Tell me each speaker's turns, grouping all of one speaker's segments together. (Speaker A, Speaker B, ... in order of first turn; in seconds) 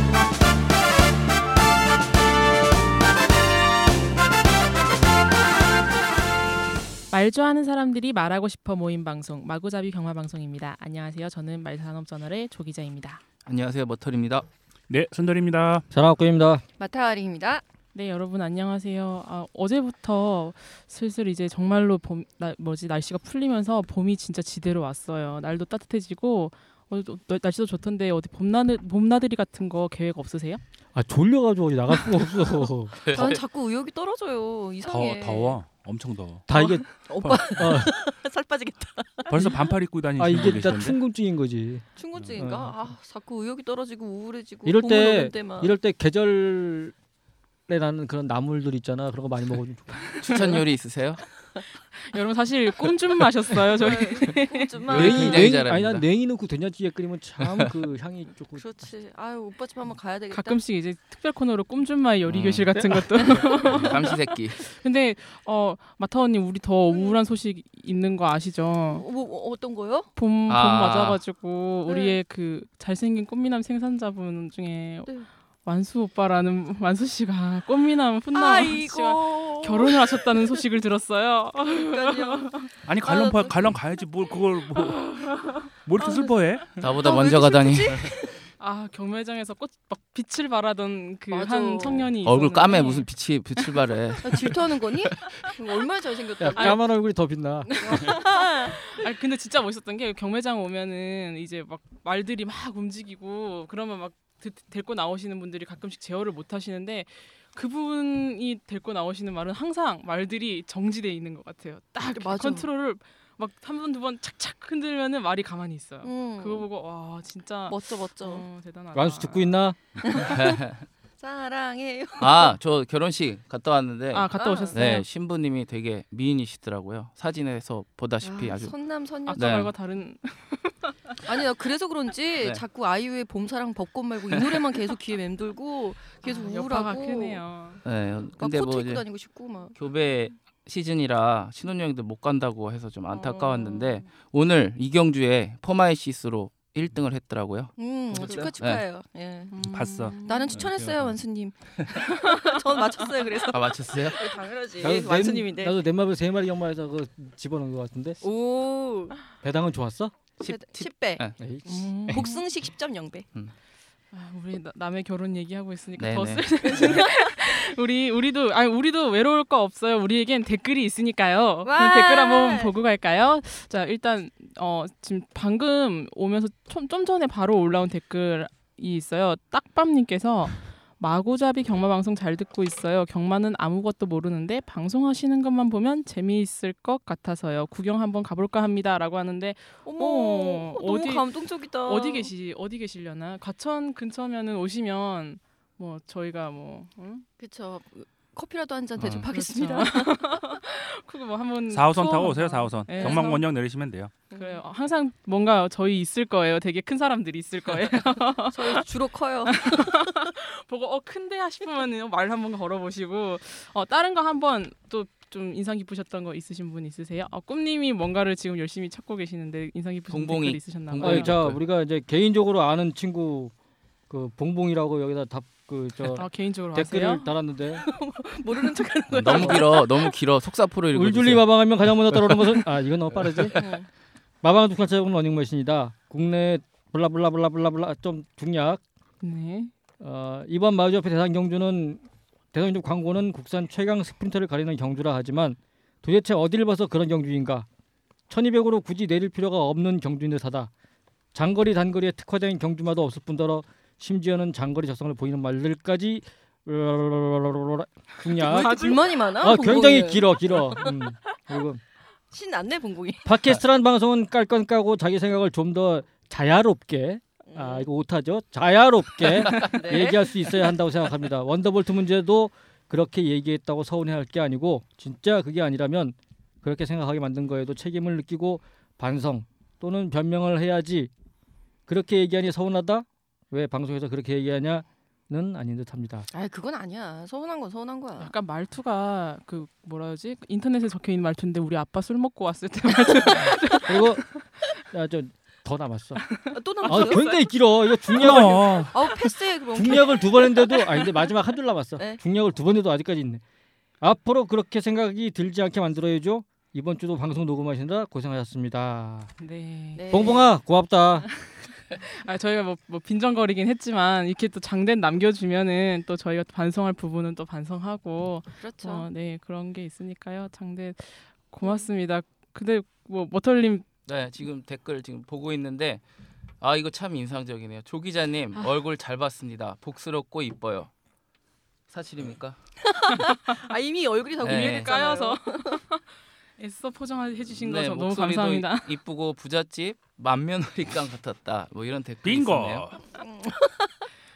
Speaker A: 7.1-13.2, 17.9-30.6, 52.0-54.7, 60.3-69.0, 70.2-75.1, 75.6-82.7, 84.7-85.7, 88.6-93.1, 97.9-119.6, 124.1-125.0, 129.2-131.2, 136.2-137.8, 143.4-143.6, 149.5-150.6, 161.7-162.4, 164.1-197.2, 199.3-203.4, 204.3-208.8, 209.6-221.4, 226.1-227.3, 239.2-239.7, 258.4-259.0, 288.2-294.4, 296.3-297.4, 309.4-310.0, 311.9-323.9, 334.4-336.0, 336.6-338.9
Speaker B: 13.4-14.4, 33.0-33.4, 50.2-51.2, 54.8-56.0, 57.4-57.7, 62.3-62.7, 63.7-64.6, 70.5-71.2, 86.8-88.1, 92.2-94.7, 120.2-120.8, 122.2-128.7, 129.3-129.7, 137.8-139.1, 139.7-148.8, 153.5-154.4, 160.4-161.3, 166.0-166.7, 199.0-199.2, 220.1-221.6, 229.1-232.6, 233.2-233.7, 324.1-326.0, 326.6-330.9, 331.9-332.6, 334.4-334.9, 337.6-342.9
Speaker C: 14.9-15.8, 34.8-36.5, 39.3-41.0, 82.8-85.1, 85.8-86.8, 149.6-151.1, 201.7-204.2, 298.2-298.9, 342.2-343.0
Speaker D: 15.9-16.6, 30.9-33.0, 36.5-37.9, 40.2-41.8, 42.4-42.7, 44.6-46.9, 47.7-50.3, 54.9-58.6, 62.8-63.5, 96.4-98.1, 118.9-119.8, 154.8-158.2, 159.4-160.1, 161.4-162.3, 221.0-223.5, 224.1-227.8, 229.3-229.6, 230.9-233.6, 234.4-238.8, 240.0-247.7, 248.3-250.7, 251.3-261.8, 263.2-281.1, 281.9-286.3, 293.9-294.3, 294.9-296.2, 296.8-303.4, 304.0-309.3, 310.1-311.3
Speaker E: 16.8-17.6, 33.1-35.6, 36.5-39.7, 42.0-45.7, 53.7-55.5, 58.5-60.6, 63.3-63.9, 66.9-67.2, 68.9-70.1, 71.9-72.2, 78.3-80.3, 81.7-83.8, 86.0-88.4, 91.3-92.1, 94.2-96.8, 97.7-98.8, 112.0-112.7, 116.0-116.7, 117.7-118.5, 120.0-120.6, 121.2-122.5, 124.3-124.8, 128.2-129.5, 131.2-137.4, 138.4-139.7, 143.1-143.9, 147.8-149.6, 150.2-155.8, 158.2-159.2, 160.4-161.2, 162.1-163.3, 166.6-167.3, 171.6-172.7, 189.8-192.3, 197.4-200.4, 202.9-203.3, 204.3-204.6, 208.5-210.0, 227.8-230.1, 233.6-233.9, 258.4-260.9, 262.3-263.3, 267.5-267.9, 269.5-270.7, 286.3-288.3, 296.5-297.5, 298.1-301.3, 309.9-310.5, 318.6-319.1, 321.6-321.9, 332.8-335.8, 343.1-344.0